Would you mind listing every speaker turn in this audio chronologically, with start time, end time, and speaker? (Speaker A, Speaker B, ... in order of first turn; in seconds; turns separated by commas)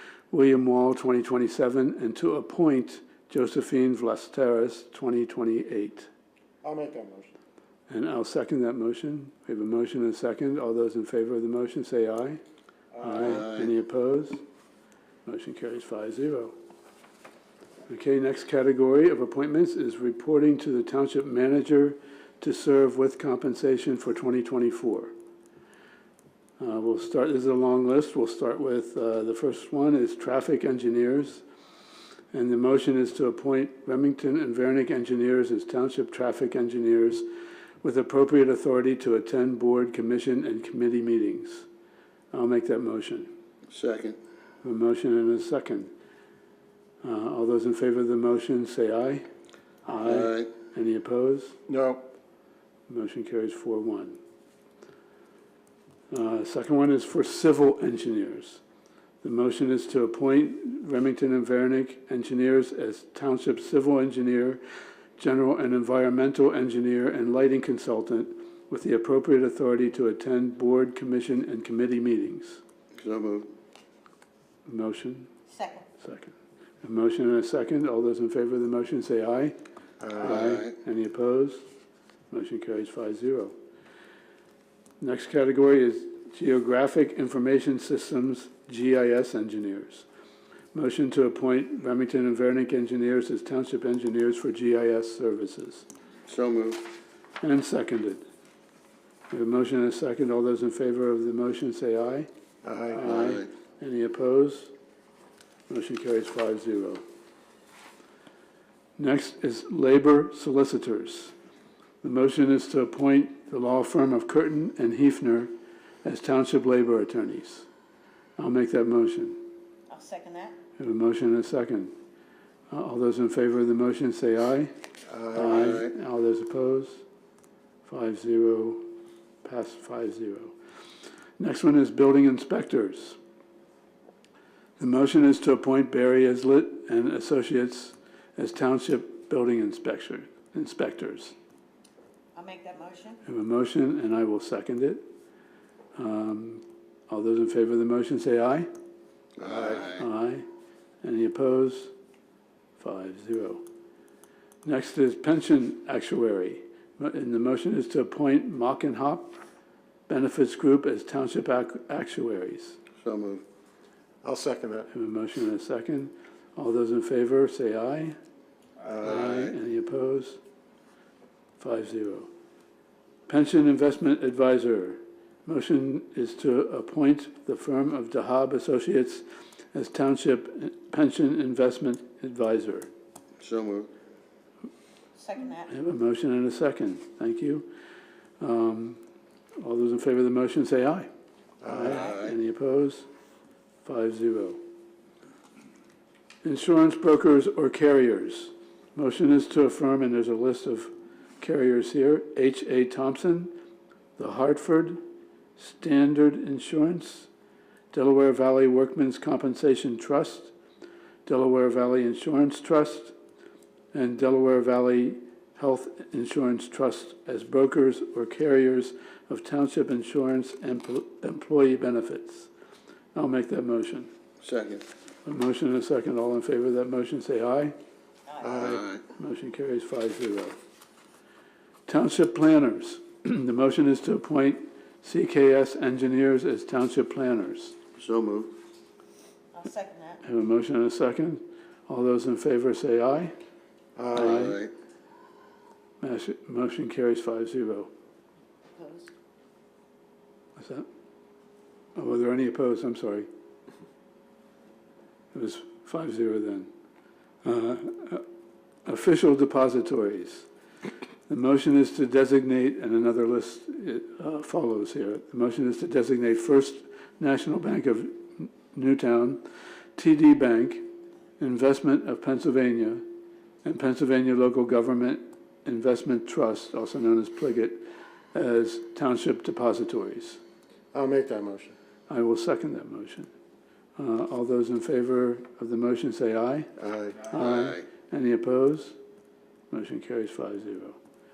Speaker A: 0.3-6.1, Speaker B: 6.6-7.3, Speaker A: 7.9-12.4, Speaker B: 12.9-13.4, Speaker A: 13.0-14.4, Speaker C: 13.2-13.7, Speaker A: 15.2-16.5, Speaker A: 17.9-25.1, Speaker A: 26.6-31.4, Speaker A: 32.3-37.3, Speaker A: 37.8-41.6, Speaker A: 42.3-43.3, Speaker C: 43.7-44.2, Speaker A: 44.6-45.9, Speaker A: 47.0-49.3, Speaker A: 49.8-51.5, Speaker C: 50.0-50.5, Speaker B: 51.7-52.0, Speaker A: 52.9-54.2, Speaker A: 56.1-58.6, Speaker A: 59.2-64.6, Speaker A: 65.2-72.6, Speaker C: 73.0-73.5, Speaker A: 74.7-75.3, Speaker D: 75.5-75.8, Speaker A: 76.0-79.5, Speaker B: 80.0-80.4, Speaker A: 80.2-81.6, Speaker C: 80.3-80.7, Speaker A: 82.3-83.5, Speaker A: 85.0-90.0, Speaker A: 90.7-95.8, Speaker C: 96.3-96.8, Speaker A: 97.4-98.2, Speaker A: 99.3-102.3, Speaker B: 102.6-103.0, Speaker A: 102.9-104.7, Speaker C: 103.0-103.5, Speaker A: 105.7-107.0, Speaker A: 109.0-111.3, Speaker A: 112.0-115.5, Speaker A: 116.0-117.7, Speaker A: 118.4-119.4, Speaker D: 119.9-120.5, Speaker A: 120.8-121.9, Speaker A: 122.7-124.7, Speaker B: 125.1-125.8, Speaker A: 125.3-127.0, Speaker C: 125.5-125.9, Speaker A: 127.8-128.8, Speaker A: 129.4-130.5, Speaker A: 131.4-133.2, Speaker A: 134.8-141.3, Speaker D: 142.3-143.2, Speaker A: 143.2-145.0, Speaker A: 145.9-148.7, Speaker C: 149.4-150.0, Speaker B: 149.4-149.8, Speaker A: 149.7-150.4, Speaker A: 151.0-151.9, Speaker A: 152.8-153.6, Speaker A: 154.6-159.3, Speaker A: 160.1-162.8, Speaker C: 163.0-163.4, Speaker B: 164.2-164.9, Speaker A: 164.9-168.2, Speaker B: 168.8-169.5, Speaker A: 169.0-170.4, Speaker A: 171.6-172.3, Speaker A: 173.3-182.9, Speaker C: 183.4-183.9, Speaker D: 185.2-185.7, Speaker A: 185.7-187.7, Speaker A: 188.4-189.0, Speaker A: 189.6-191.1, Speaker B: 191.6-192.0, Speaker A: 191.6-193.1, Speaker C: 191.9-192.3, Speaker A: 193.8-194.6, Speaker A: 196.4-203.5, Speaker A: 204.2-205.0, Speaker A: 205.6-207.3, Speaker A: 207.9-210.5, Speaker A: 211.2-213.1, Speaker A: 213.9-222.5, Speaker A: 223.1-224.1, Speaker C: 224.4-224.8, Speaker A: 225.2-227.7, Speaker D: 228.3-228.6, Speaker B: 228.4-228.8, Speaker C: 228.5-229.0, Speaker A: 228.6-230.6, Speaker A: 231.9-237.8, Speaker C: 237.9-238.5, Speaker D: 239.5-240.2, Speaker A: 240.2-243.3, Speaker B: 243.9-244.5, Speaker A: 244.1-244.6, Speaker C: 244.2-244.7, Speaker A: 246.0-247.9, Speaker D: 248.8-249.1, Speaker A: 250.6-250.8, Speaker A: 251.9-253.3, Speaker A: 255.3-256.7, Speaker A: 257.4-258.2, Speaker A: 258.8-260.5, Speaker A: 261.3-269.4, Speaker A: 269.9-270.8, Speaker A: 271.4-273.0, Speaker A: 273.6-280.4, Speaker B: 280.9-281.7, Speaker A: 282.1-283.3, Speaker A: 283.9-286.7, Speaker B: 286.8-287.3, Speaker A: 287.3-289.0, Speaker C: 287.4-287.8, Speaker A: 289.7-291.0